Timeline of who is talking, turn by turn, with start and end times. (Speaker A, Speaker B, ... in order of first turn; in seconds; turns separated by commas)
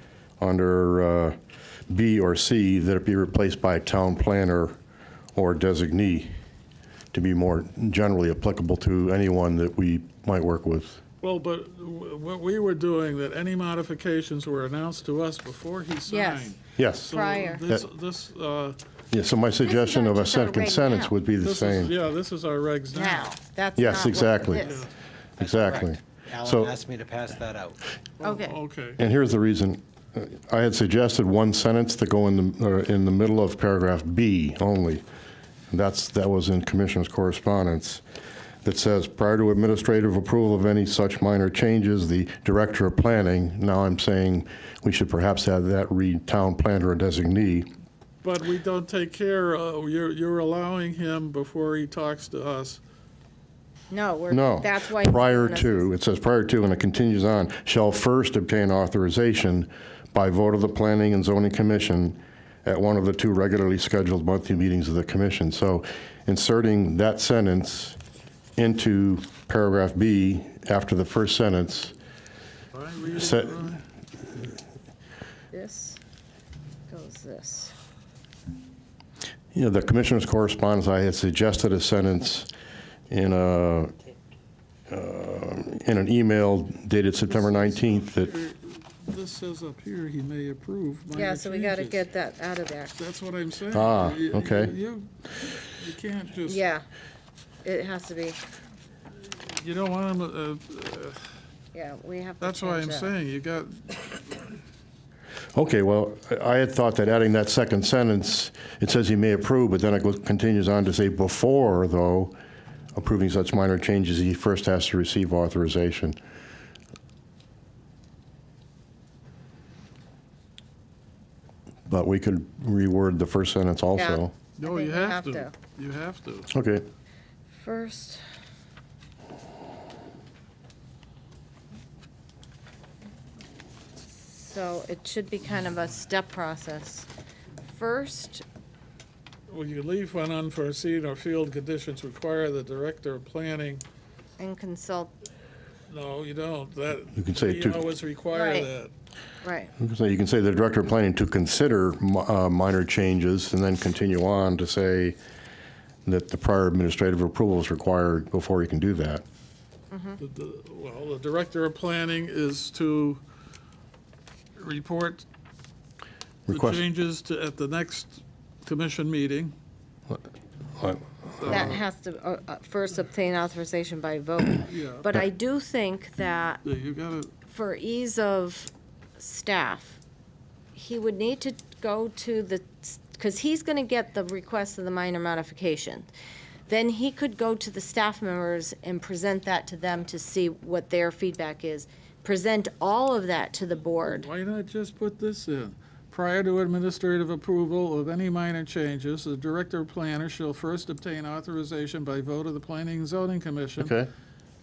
Speaker A: 0.4-1.4, Speaker A: 1.9-4.8, Speaker A: 5.3-6.3, Speaker A: 7.1-11.0, Speaker B: 11.2-18.8, Speaker C: 16.1-16.6, Speaker A: 16.7-17.8, Speaker C: 17.1-17.6, Speaker A: 19.1-21.9, Speaker C: 19.6-21.1, Speaker B: 21.4-23.3, Speaker C: 22.9-24.9, Speaker A: 23.8-24.7, Speaker B: 24.1-24.9, Speaker A: 25.4-26.7, Speaker D: 25.4-27.8, Speaker B: 28.2-29.0, Speaker C: 28.2-28.6, Speaker A: 29.0-35.0, Speaker A: 35.7-38.0, Speaker A: 38.6-47.7, Speaker B: 48.2-52.8, Speaker C: 53.9-55.9, Speaker A: 54.3-68.0, Speaker A: 68.6-71.9, Speaker B: 72.7-73.8, Speaker A: 73.1-73.5, Speaker C: 75.5-76.0, Speaker C: 76.9-77.7, Speaker A: 79.5-82.5, Speaker A: 83.1-83.9, Speaker A: 84.9-88.3, Speaker B: 87.3-92.0, Speaker C: 91.1-92.9, Speaker B: 92.9-96.6, Speaker A: 93.7-94.7, Speaker C: 96.5-96.8, Speaker C: 97.6-98.4, Speaker B: 99.1-101.2, Speaker C: 101.7-103.1, Speaker B: 102.4-104.4, Speaker A: 105.5-112.3, Speaker A: 112.9-116.2, Speaker A: 121.9-124.3, Speaker C: 124.0-125.5, Speaker B: 124.6-126.5, Speaker A: 126.5-126.8, Speaker C: 127.5-128.2, Speaker C: 134.2-137.1, Speaker C: 137.7-138.4, Speaker B: 139.5-143.8, Speaker C: 144.4-145.1, Speaker B: 145.9-148.9, Speaker A: 147.1-147.8, Speaker C: 148.3-148.7, Speaker C: 149.4-149.7, Speaker A: 149.8-155.2, Speaker A: 156.1-159.2, Speaker C: 159.9-160.2, Speaker B: 160.2-163.2, Speaker B: 164.6-165.2, Speaker A: 166.5-166.8, Speaker B: 166.5-169.5, Speaker A: 170.8-171.7, Speaker B: 171.4-171.8, Speaker C: 171.5-176.6, Speaker B: 174.6-175.2, Speaker B: 176.6-177.3, Speaker C: 177.4-180.0, Speaker C: 180.7-186.1, Speaker C: 186.7-194.3, Speaker B: 193.9-203.9, Speaker A: 203.8-204.1